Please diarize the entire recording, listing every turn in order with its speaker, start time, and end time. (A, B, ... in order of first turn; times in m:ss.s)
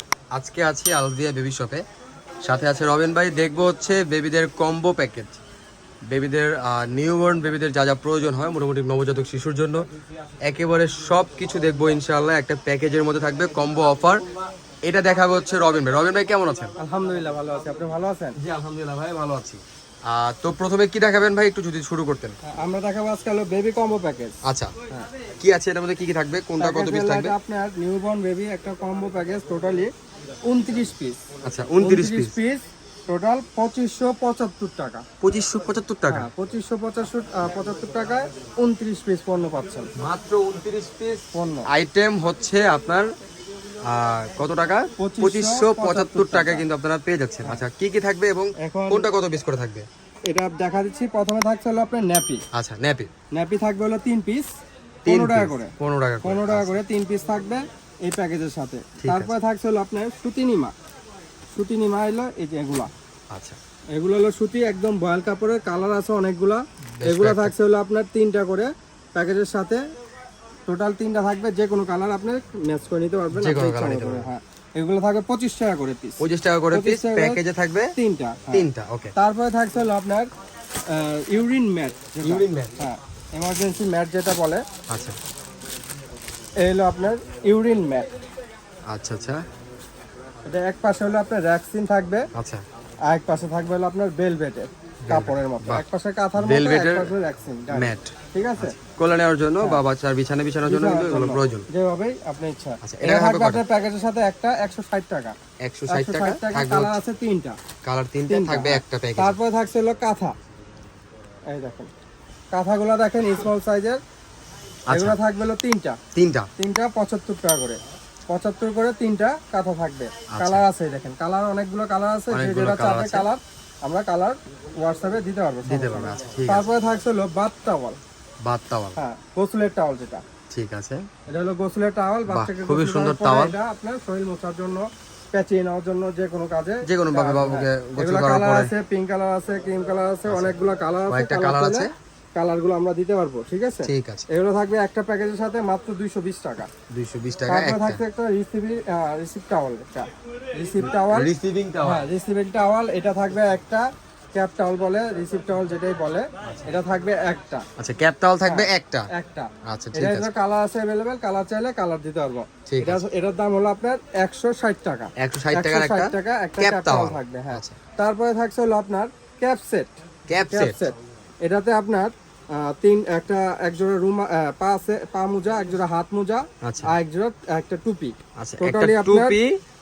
0:00.4-0:01.8 A
0:02.4-0:05.4 A
0:06.1-0:09.8 A
0:10.5-0:14.2 A
0:14.8-0:16.7 A
0:16.8-0:18.4 B
0:18.4-0:22.4 A
0:22.5-0:24.4 B
0:24.4-0:24.7 A
0:25.4-0:27.3 A
0:26.6-0:29.9 B
0:30.5-0:31.2 B
0:31.4-0:32.3 A
0:31.8-0:35.0 B
0:35.2-0:36.3 A
0:36.1-0:39.9 B
0:40.0-0:43.1 A
0:41.3-0:41.7 B
0:43.9-0:49.9 A
0:45.0-0:46.7 B
0:48.6-0:49.1 B
0:50.3-0:52.4 B
0:52.5-0:53.1 A
0:53.3-0:54.5 B
0:55.0-0:56.8 A
0:55.0-1:00.7 B
0:59.0-0:59.3 A
1:01.5-1:02.9 B
1:03.3-1:03.6 A
1:04.0-1:09.8 B
1:07.0-1:07.5 A
1:10.7-1:17.4 B
1:13.4-1:14.3 A
1:16.2-1:17.9 A
1:18.0-1:20.3 B
1:18.5-1:19.1 A
1:20.9-1:24.6 B
1:22.2-1:22.7 A
1:24.9-1:25.2 A
1:26.6-1:28.2 B
1:28.9-1:29.4 A
1:30.5-1:32.3 B
1:32.4-1:32.6 A
1:33.1-1:38.8 B
1:35.1-1:35.8 A
1:36.4-1:37.1 A
1:37.7-1:41.7 A
1:40.6-1:45.4 B
1:42.8-1:43.6 A
1:45.6-1:47.0 A
1:45.9-1:47.6 B
1:47.8-1:49.4 A
1:48.3-1:50.4 B
1:51.5-1:51.9 B
1:52.5-1:54.0 B
1:54.9-1:55.2 A
1:54.9-1:56.0 B
1:56.1-1:56.5 A
1:56.6-1:57.8 B
1:58.3-2:08.0 B
2:00.3-2:00.6 A
2:02.3-2:03.3 A
2:05.7-2:06.7 A
2:08.4-2:09.0 A
2:09.0-2:10.2 B
2:10.5-2:11.0 A
2:11.3-2:26.7 B
2:12.3-2:13.6 A
2:16.8-2:18.7 A
2:20.3-2:20.5 A
2:21.1-2:21.9 A
2:23.8-2:24.3 A
2:26.9-2:28.0 A
2:27.5-2:31.3 B
2:31.0-2:32.1 A
2:31.8-2:37.7 B
2:36.4-2:36.7 A
2:37.8-2:39.1 A
2:38.4-2:49.9 B
2:39.7-2:40.3 A
2:42.7-2:43.0 A
2:45.2-2:47.8 A
2:50.3-2:50.8 A
2:50.5-2:59.4 B
2:56.6-2:56.9 A
2:58.4-2:59.6 A